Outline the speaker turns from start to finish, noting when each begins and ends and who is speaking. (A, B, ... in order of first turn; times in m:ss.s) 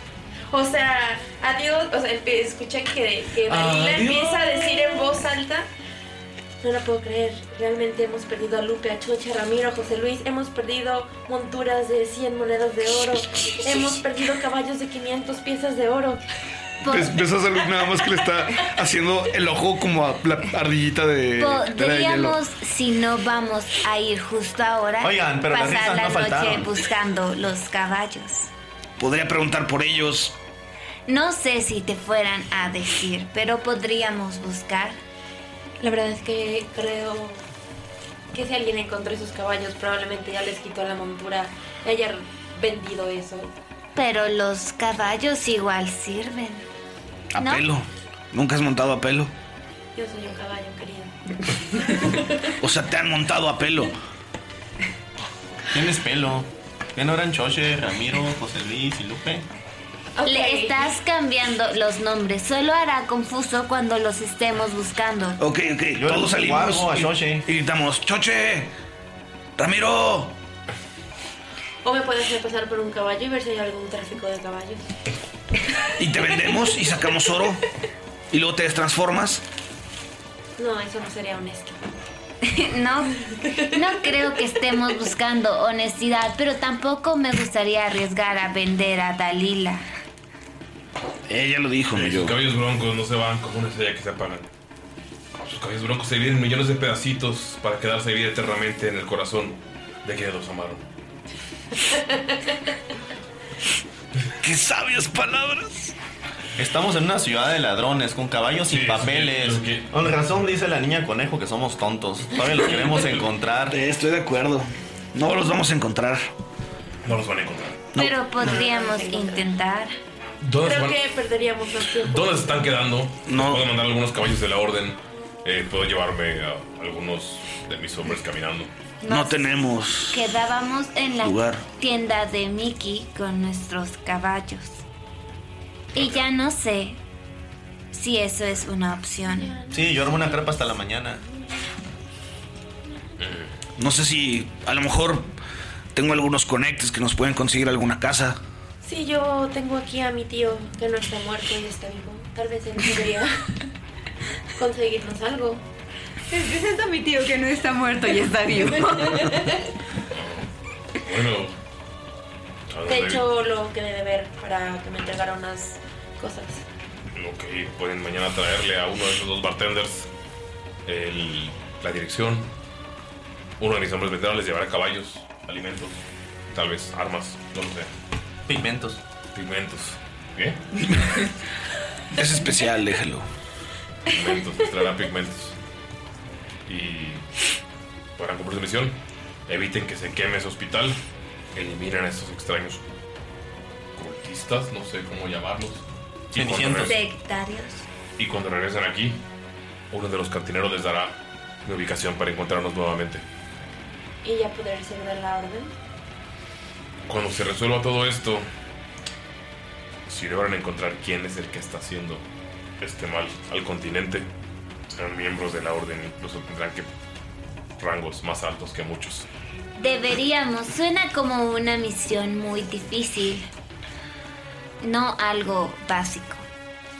0:00.5-0:05.7 A
0:03.5-0:04.6 B
0:06.6-0:16.2 A
0:16.8-0:17.2 C
0:16.8-0:22.4 D
0:21.4-0:28.5 C
0:25.0-0:26.7 E
0:29.0-0:30.4 D
0:31.1-0:35.0 C
0:35.8-0:37.4 A
0:38.3-0:43.5 A
0:43.9-0:46.6 C
0:47.3-0:49.3 D
0:47.4-0:47.7 C
0:49.9-0:51.1 A
0:51.8-0:52.5 A
0:52.6-0:53.9 D
0:55.7-0:59.5 E
1:00.2-1:00.9 A
1:00.2-1:05.4 C
1:05.4-1:08.7 D
1:05.9-1:07.5 E
1:09.6-1:10.4 D
1:11.8-1:14.9 A
1:16.0-1:17.6 D
1:18.3-1:19.4 D
1:20.6-1:21.8 A
1:22.4-1:23.2 C
1:23.7-1:29.8 C
1:31.3-1:32.4 D
1:31.9-1:34.5 B
1:35.4-1:40.8 B
1:44.4-1:45.9 D
1:46.6-1:53.8 E
1:48.7-1:50.4 B
1:53.7-1:56.3 D
1:57.0-1:57.9 B
1:58.0-1:59.9 C
1:58.4-1:59.4 A
2:00.4-2:01.0 B
2:00.6-2:02.4 A
2:02.1-2:08.7 B
2:03.3-2:03.7 D
2:09.0-2:14.8 C
2:09.1-2:10.4 D
2:11.2-2:11.6 D
2:15.9-2:17.0 C
2:17.9-2:19.6 C
2:19.3-2:20.8 A
2:19.7-2:21.2 E
2:23.2-2:23.5 B
2:23.8-2:25.3 D
2:25.9-2:28.4 D
2:28.8-2:33.6 A
2:34.6-2:35.6 A
2:36.3-2:39.4 F
2:40.1-2:40.4 B
2:41.0-2:41.6 B
2:42.7-2:43.2 B
2:42.8-2:46.6 A
2:47.1-2:50.1 B
2:50.8-2:52.5 B
2:53.6-2:57.9 B
2:58.5-2:59.0 E
2:59.3-3:00.6 B
3:00.8-3:01.3 D
3:02.1-3:03.3 D
3:04.1-3:05.6 B
3:06.7-3:07.2 B
3:08.2-3:11.0 B
3:11.6-3:12.8 B
3:14.0-3:16.9 B
3:16.3-3:17.0 E
3:16.8-3:17.8 C
3:18.2-3:19.2 B
3:19.9-3:23.2 B
3:24.2-3:25.7 A
3:27.1-3:28.4 B
3:30.1-3:32.2 B
3:32.8-3:34.3 B
3:34.9-3:36.9 B
3:37.8-3:39.3 B
3:39.8-3:43.5 C
3:44.8-3:46.4 C